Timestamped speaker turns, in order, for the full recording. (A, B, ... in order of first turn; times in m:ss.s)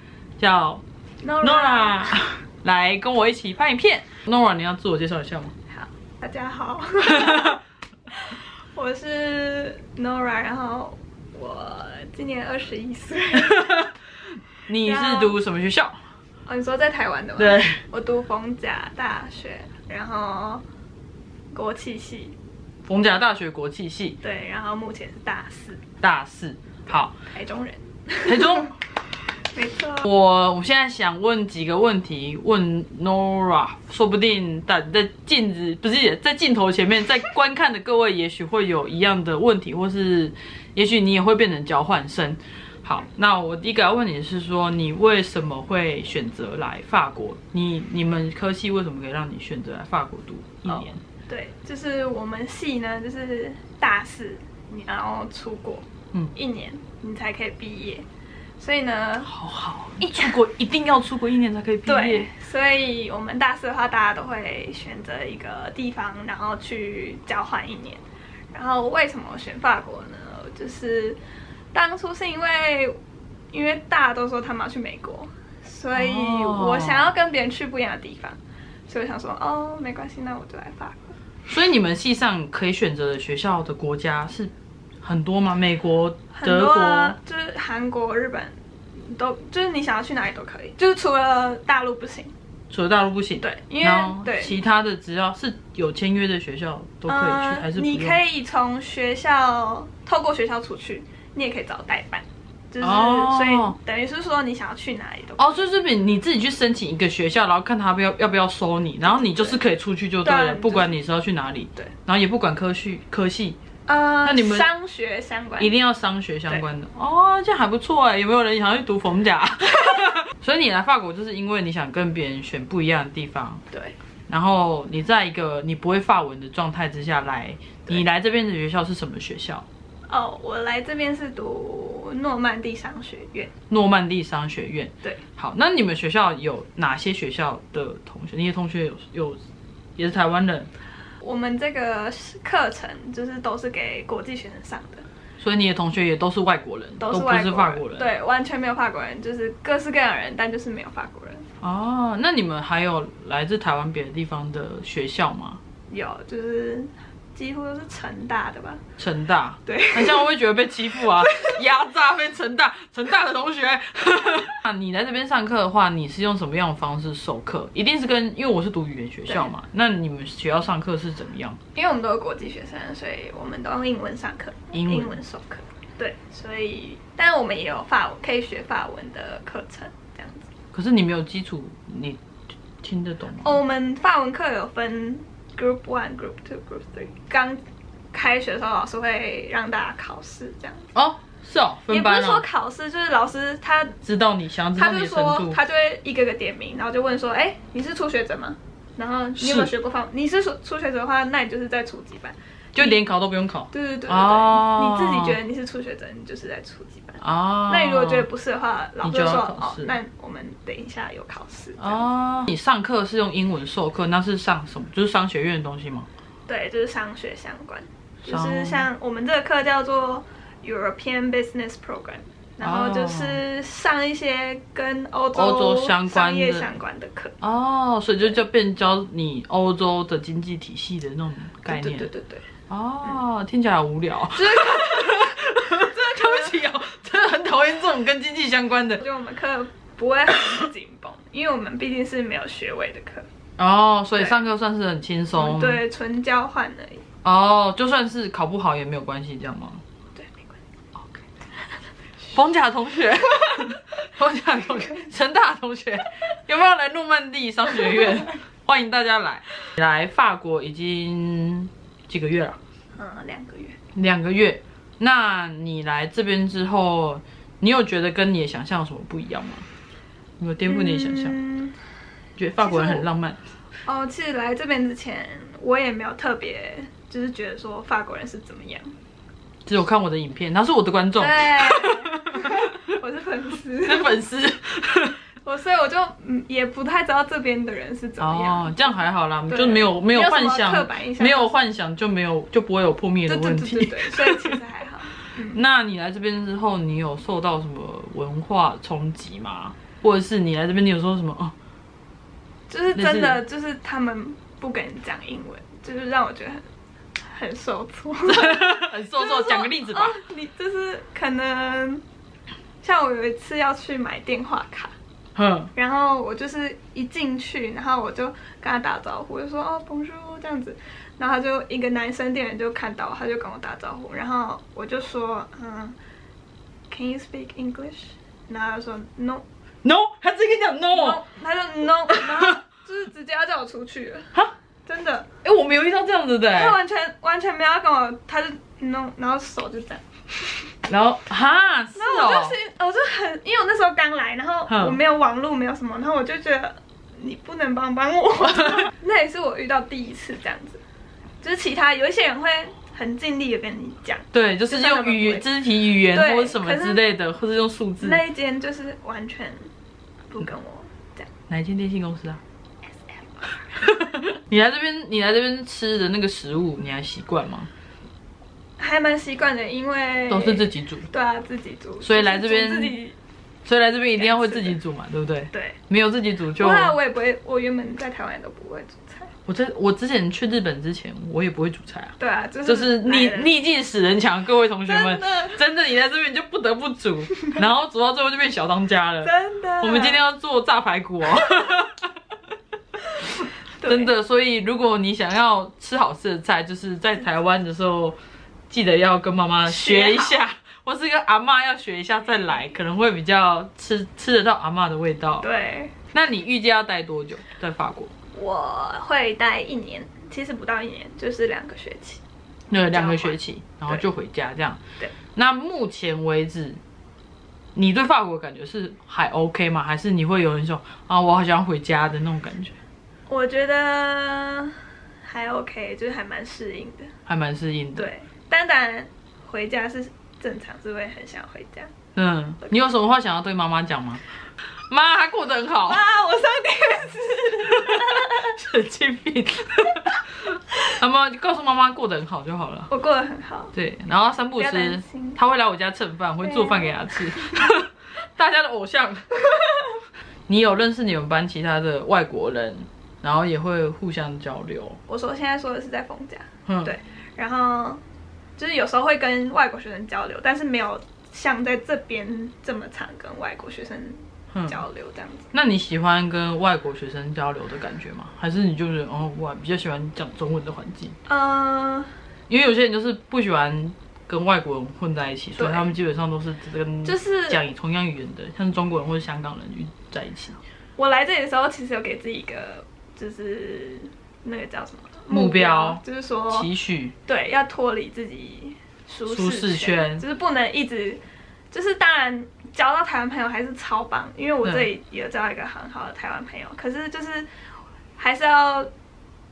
0:00.4-0:00.8 A
0:01.2-0:02.2 B
0:01.4-0:05.5 A
0:05.7-0:13.9 B
0:07.2-0:07.5 A
0:13.4-0:13.9 A
0:14.5-0:16.0 A
0:14.8-0:15.3 B
0:16.4-0:20.6 B
0:17.4-0:17.8 A
0:21.5-0:22.3 B
0:22.8-0:24.2 A
0:24.2-0:25.8 B
0:26.0-0:27.1 A
0:27.2-0:30.1 B
0:28.3-0:28.7 A
0:30.0-0:51.0 A
0:51.3-0:58.0 B
0:58.6-0:59.3 B
0:59.2-1:02.3 A
1:00.0-1:00.3 B
1:01.8-1:11.2 B
1:11.7-1:13.0 B
1:13.5-1:21.2 B
1:15.9-1:17.1 A
1:21.5-1:24.5 A
1:25.0-1:27.2 A
1:26.3-1:32.3 B
1:32.7-1:38.2 A
1:33.4-1:34.6 B
1:37.1-1:45.4 B
1:42.8-1:43.8 A
1:45.4-1:53.6 A
1:49.0-1:49.6 B
1:50.2-1:51.0 B
1:53.8-1:55.7 B
1:54.2-1:54.6 A
1:55.6-2:03.6 A
2:03.7-2:04.0 B
2:04.3-2:09.6 A
2:10.1-2:13.5 B
2:13.7-2:19.4 A
2:20.0-2:20.7 A
2:21.2-2:25.0 B
2:25.4-2:28.1 A
2:27.0-2:31.4 B
2:31.6-2:35.6 A
2:35.9-2:38.8 B
2:39.0-2:51.6 A
2:39.6-2:40.2 B
2:41.2-2:41.6 B
2:51.7-3:00.5 B
2:54.7-2:55.2 A
3:00.7-3:02.2 A
3:02.8-3:03.6 A
3:03.4-3:07.6 B
3:08.1-3:10.9 B
3:10.9-3:12.4 A
3:11.9-3:14.0 B
3:14.0-3:15.6 A
3:14.7-3:23.0 B
3:19.4-3:19.7 A
3:22.7-3:25.4 A
3:23.7-3:32.0 B
3:27.2-3:28.2 A
3:29.0-3:29.9 A
3:31.8-3:36.1 A
3:36.5-3:47.4 B
3:38.2-3:38.9 A
3:42.6-3:43.4 A
3:45.3-3:46.7 A
3:47.4-3:52.1 A
3:51.7-3:52.4 B
3:52.7-3:59.0 A
3:54.3-3:56.5 B
3:59.0-4:03.3 B
4:03.6-4:05.8 A
4:05.3-4:07.1 B
4:07.2-4:09.8 A
4:10.1-4:10.6 B
4:12.3-4:22.6 A
4:23.0-4:23.8 B
4:23.9-4:29.6 A
4:30.4-4:31.4 A
4:30.6-4:31.8 B
4:32.4-4:33.4 A
4:32.6-4:33.0 B
4:33.8-4:38.9 B
4:39.6-4:42.6 A
4:41.2-4:44.2 B
4:43.8-4:45.2 A
4:45.4-4:48.8 B
4:48.2-4:54.6 A
4:49.5-4:51.5 B
4:53.3-4:55.6 B
4:55.5-5:01.5 A
5:02.7-5:06.6 B
5:02.9-5:03.4 A
5:07.2-5:12.0 B
5:08.2-5:10.2 A
5:12.8-5:14.9 B
5:15.4-5:15.7 A
5:15.7-5:26.0 B
5:26.9-5:29.4 B
5:29.8-5:31.2 A
5:30.9-5:34.3 B
5:32.1-5:32.5 A
5:34.8-5:35.3 B
5:35.4-5:36.8 A
5:36.5-5:40.7 B
5:40.9-5:42.6 A
5:41.9-5:50.8 B
5:44.7-5:45.0 A
5:51.4-5:55.5 B
5:54.3-5:58.2 A
5:56.0-5:57.0 B
5:58.0-5:59.7 B
6:00.3-6:01.3 B
6:01.5-6:02.4 A
6:03.4-6:03.7 B
6:03.8-6:07.7 A
6:08.8-6:13.2 B
6:10.3-6:11.1 A
6:12.0-6:13.0 A
6:13.6-6:17.0 A
6:14.1-6:14.8 B
6:15.5-6:15.8 B
6:16.6-6:19.3 B
6:19.4-6:32.1 A
6:22.2-6:23.5 B
6:24.8-6:25.6 B
6:29.2-6:30.2 B
6:33.2-6:34.1 B
6:33.8-6:38.2 A
6:38.7-6:45.4 A
6:39.6-6:40.4 B
6:45.4-6:45.9 B
6:46.1-6:48.1 A
6:48.3-6:52.2 B
6:52.7-6:54.8 A
6:52.9-6:54.0 B
6:55.3-6:56.8 A
6:57.7-7:02.8 A
7:03.3-7:07.1 B
7:07.3-7:08.1 A
7:08.0-7:11.9 B
7:12.2-7:14.2 A
7:14.9-7:16.1 A
7:15.8-7:18.5 B
7:17.7-7:22.9 A
7:22.9-7:23.7 B
7:23.7-7:29.8 A
7:24.6-7:25.4 B
7:26.4-7:27.5 B
7:30.5-7:35.0 A
7:35.1-7:38.0 B
7:38.6-7:45.5 B
7:44.5-7:44.8 A
7:45.5-7:51.2 A
7:51.2-7:52.1 B
7:52.5-8:00.6 A
7:55.6-7:55.9 B
7:57.0-7:57.6 B
8:01.0-8:06.7 B
8:05.3-8:07.1 A
8:07.2-8:17.5 B
8:09.3-8:10.2 A
8:18.2-8:18.9 B